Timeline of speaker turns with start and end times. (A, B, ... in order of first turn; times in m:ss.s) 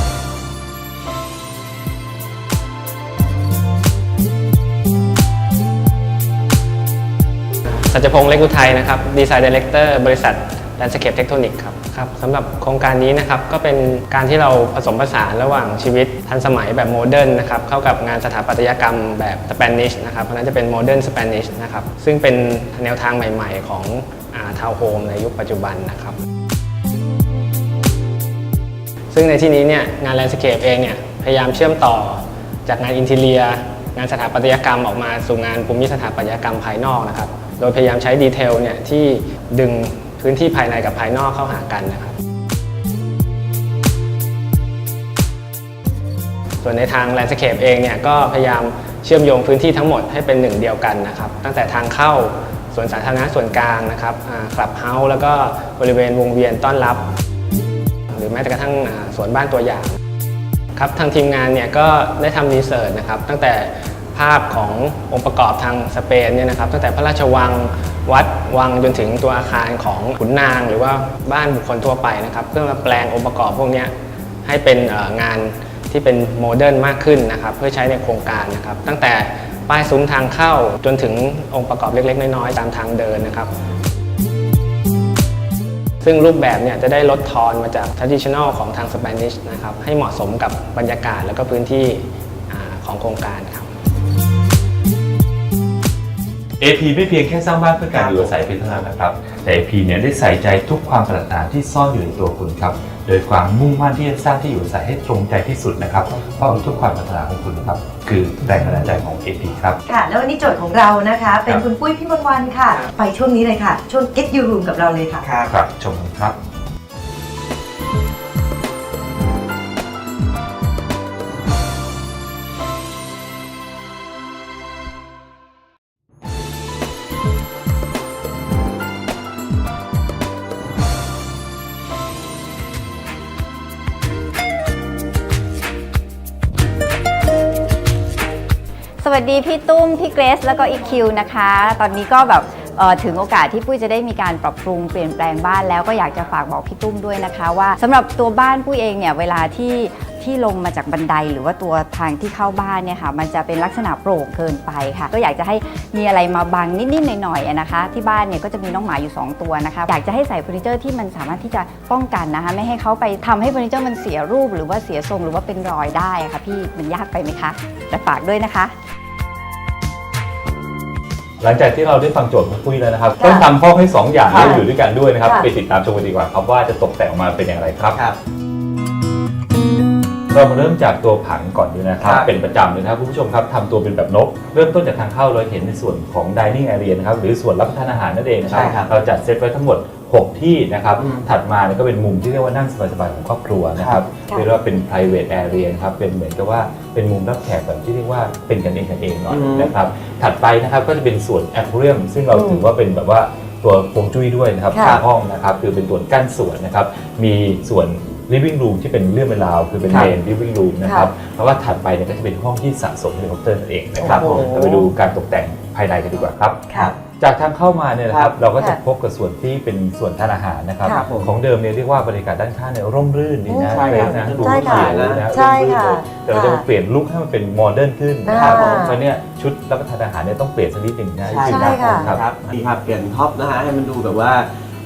0:07.9-0:26.2 A
0:29.1-0:42.1 A
0:46.6-0:57.0 A
0:58.1-0:59.9 A
1:00.8-1:13.9 A
1:14.4-1:23.5 A
1:26.0-1:33.7 A
1:36.6-1:49.8 B
1:37.9-1:38.3 C
1:49.8-1:55.2 D
1:55.2-1:55.5 C
1:55.5-1:56.4 B
2:19.0-2:48.7 E
2:51.4-2:58.0 B
2:53.2-2:53.5 D
2:54.3-2:54.6 D
2:55.2-2:55.5 D
3:00.3-3:36.7 B
3:02.0-3:02.3 C
3:08.4-3:08.9 C
3:11.0-3:11.3 C
3:13.8-3:14.0 C
3:19.3-3:19.7 C
3:22.3-3:22.7 D
3:24.7-3:25.0 D
3:30.8-3:31.1 D
3:34.0-3:34.9 C
3:36.1-3:36.9 C
3:37.2-3:52.2 B
3:38.1-3:38.4 C
3:40.9-3:41.3 C
3:43.5-3:46.6 D
3:43.7-3:45.2 C
3:48.2-3:49.0 D
3:48.3-3:48.9 C
3:51.2-3:54.5 C
3:51.4-3:52.1 D